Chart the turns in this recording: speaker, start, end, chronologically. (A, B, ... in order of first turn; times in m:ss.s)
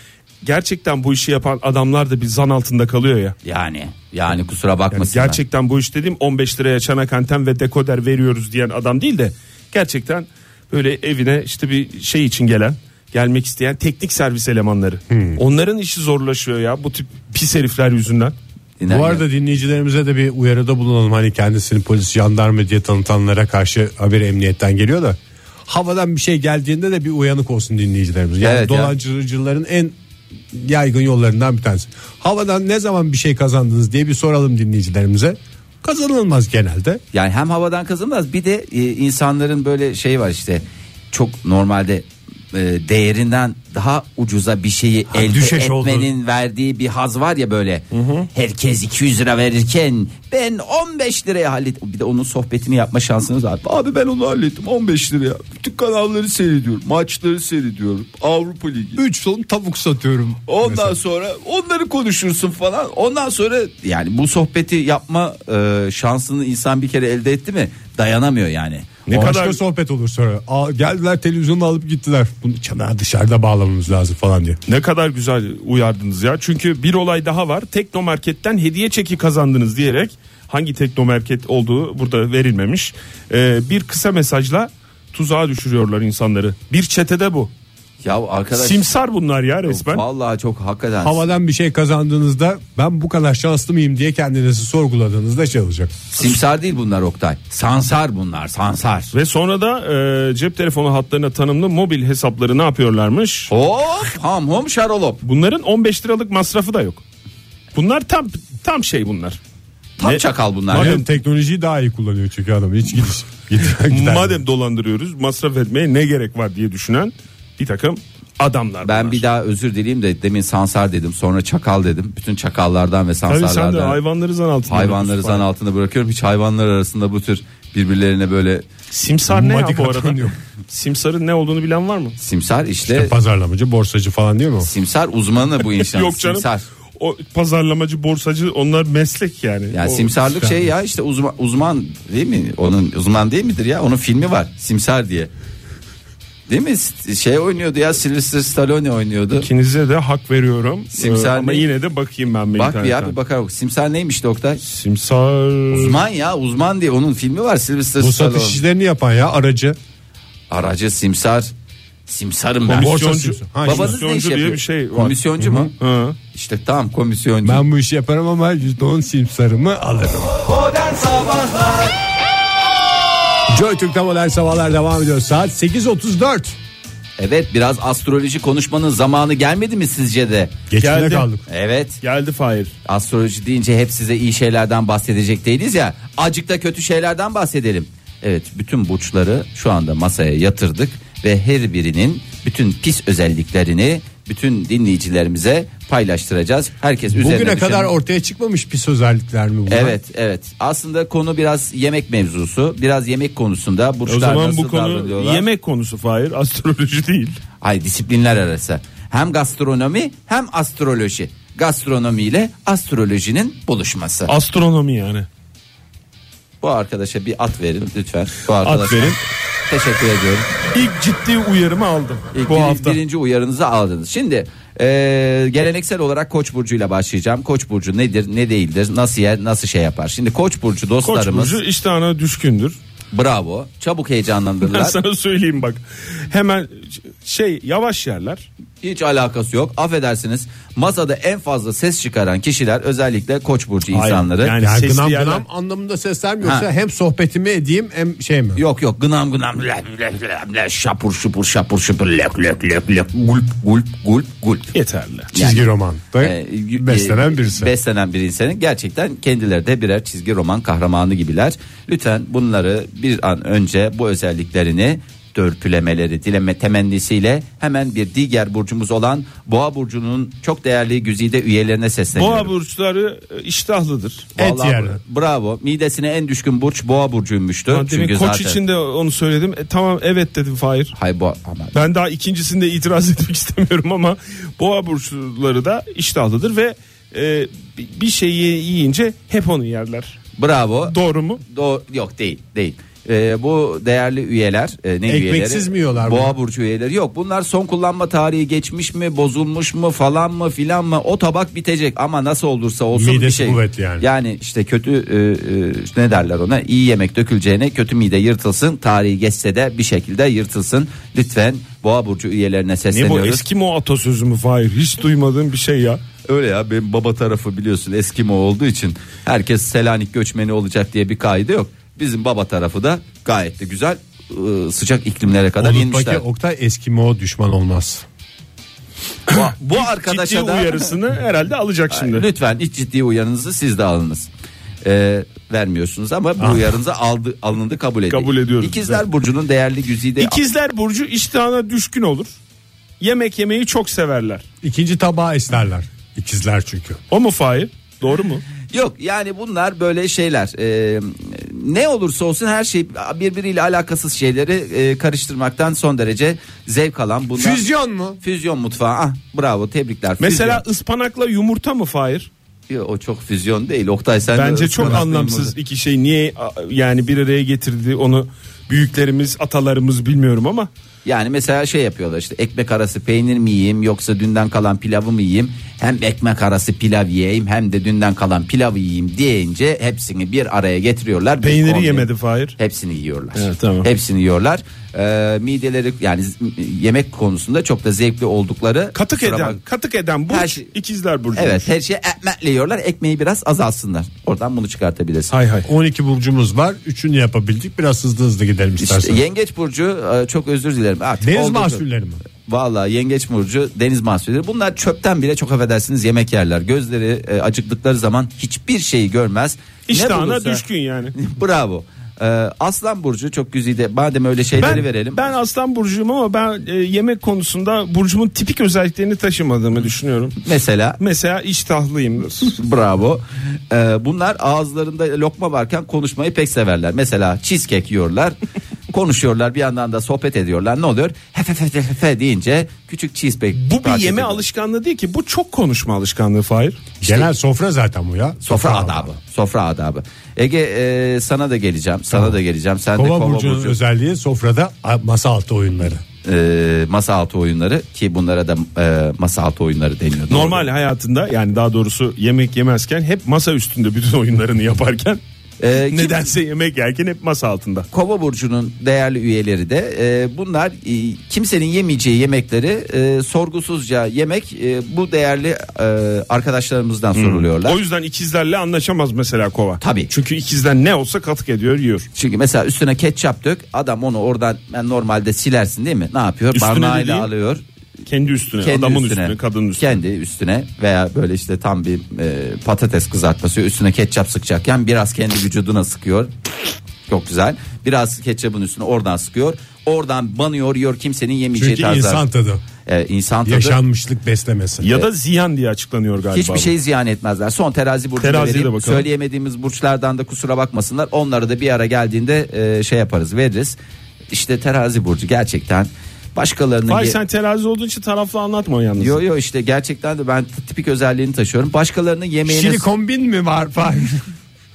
0:00.4-0:03.3 A
0:03.4-0:05.4 B
0:05.1-0:18.4 A
0:15.1-0:15.4 C
0:18.8-0:19.2 B
0:18.9-0:29.9 C
0:28.4-0:28.9 B
0:30.5-0:37.0 C
0:37.1-0:59.0 B
0:45.1-0:46.1 C
0:47.9-0:48.3 A
0:59.0-1:01.0 C
1:00.5-1:09.0 B
1:09.0-1:09.6 A
1:09.1-1:14.6 C
1:14.7-1:27.5 A
1:28.0-1:28.8 B
1:28.5-1:30.0 A
1:29.7-1:31.2 B
1:31.0-1:36.0 C
1:36.1-1:39.1 B
1:39.1-1:43.5 A
1:43.5-1:45.2 B
1:45.2-1:47.0 A
1:47.7-1:49.4 A
1:50.0-1:51.0 B
1:50.0-1:51.0 A
1:50.7-1:54.4 C
1:53.9-1:59.2 A
1:58.8-2:04.0 B
2:03.3-2:05.4 A
2:04.7-2:08.6 B
2:08.9-2:12.2 A
2:09.3-2:10.4 C
2:12.2-2:13.1 B
2:12.8-2:14.7 C
2:14.6-2:16.6 B
2:15.6-2:20.1 A
2:19.7-2:25.3 B
2:20.2-2:20.7 C
2:26.5-2:29.5 B
2:29.4-2:33.1 A
2:30.9-2:31.6 B
2:32.5-2:34.6 B
2:34.6-2:36.0 A
2:35.7-2:38.6 B
2:38.0-2:39.8 C
2:40.5-2:41.5 B
2:42.1-2:42.9 B
2:42.7-2:45.2 A
2:42.8-2:44.0 C
2:43.6-2:45.7 B
2:45.4-2:45.7 C
2:45.8-2:46.2 A
2:46.3-2:47.6 B
2:47.4-2:50.4 C
2:50.8-2:51.8 B
2:53.5-2:56.6 C
2:57.2-3:00.6 B
3:00.7-3:01.4 C
3:00.8-3:01.3 A
3:01.5-3:02.0 B
3:02.0-3:02.7 A
3:02.8-3:17.9 B
3:17.1-3:20.0 C
3:19.7-3:25.4 B
3:24.1-3:27.4 A
3:27.6-3:34.3 B
3:34.3-3:35.3 A
3:36.6-3:40.5 B
3:38.6-3:39.2 A
3:40.7-3:43.0 A
3:42.3-3:51.6 B
3:51.0-3:52.8 A
3:53.1-3:55.0 B
3:54.6-3:58.5 A
3:58.8-4:04.5 B
4:03.9-4:05.4 A
4:04.6-4:08.6 C
4:06.4-4:06.7 B
4:08.6-4:14.7 B
4:14.7-4:15.3 A
4:15.3-4:15.7 B
4:15.3-4:17.7 C
4:16.2-4:32.5 B
4:32.1-4:34.3 A
4:34.3-4:38.6 B
4:34.4-4:35.0 C
4:37.7-4:40.9 A
4:40.9-4:41.8 B
4:41.7-4:50.2 A
4:50.4-4:50.9 B
4:50.9-4:51.4 A
4:51.5-5:13.4 B
4:55.0-4:56.3 C
5:02.9-5:04.0 C
5:12.9-5:16.0 A
5:16.2-5:26.2 B
5:25.6-5:28.0 C
5:29.3-5:31.0 B
5:29.3-5:32.2 A
5:31.9-5:34.3 B
5:34.8-5:40.4 B
5:36.4-5:36.7 C
5:38.1-5:39.0 A
5:40.2-5:42.4 A
5:43.0-5:44.4 A
5:44.6-5:47.0 C
5:47.1-5:48.4 A
5:48.7-5:57.7 B
5:57.4-5:58.2 C
5:58.2-6:00.6 B
6:00.2-6:02.3 A
6:02.7-6:05.5 B
6:04.3-6:10.7 A
6:11.0-6:29.6 B
6:21.4-6:22.6 A
6:23.3-6:23.9 A
6:28.9-6:31.7 A
6:30.3-6:30.7 B
6:31.4-6:35.3 B
6:35.3-6:35.7 A
6:35.6-6:39.2 C
6:38.8-6:41.8 B
6:41.2-6:42.2 C
6:42.5-6:50.6 B
6:49.9-6:51.2 A
6:51.1-6:55.3 B
6:54.6-7:00.4 A
7:00.4-7:01.0 B
7:01.0-7:02.5 A
7:02.5-7:08.4 B
7:08.9-7:14.4 B
7:13.5-7:16.8 A
7:17.0-7:19.2 C
7:18.4-7:23.8 B
7:22.1-7:22.4 C
7:23.0-7:26.0 C
7:26.2-7:30.7 B
7:30.3-7:35.2 A
7:35.6-7:36.3 B
7:35.8-7:37.9 A
7:37.9-7:47.8 B
7:47.1-7:52.1 A
7:49.8-7:50.1 B
7:52.1-7:57.6 B
7:56.5-7:57.3 A
7:58.1-8:00.0 A
7:58.6-8:06.3 B
8:07.1-8:12.2 B
8:11.5-8:12.6 C
8:12.8-8:13.8 B
8:13.4-8:14.9 C
8:14.8-8:16.7 A
8:16.3-8:23.8 B
8:18.2-8:19.1 A
8:24.3-8:27.2 B
8:26.9-8:29.2 A
8:29.0-8:32.8 B
8:32.4-8:34.2 C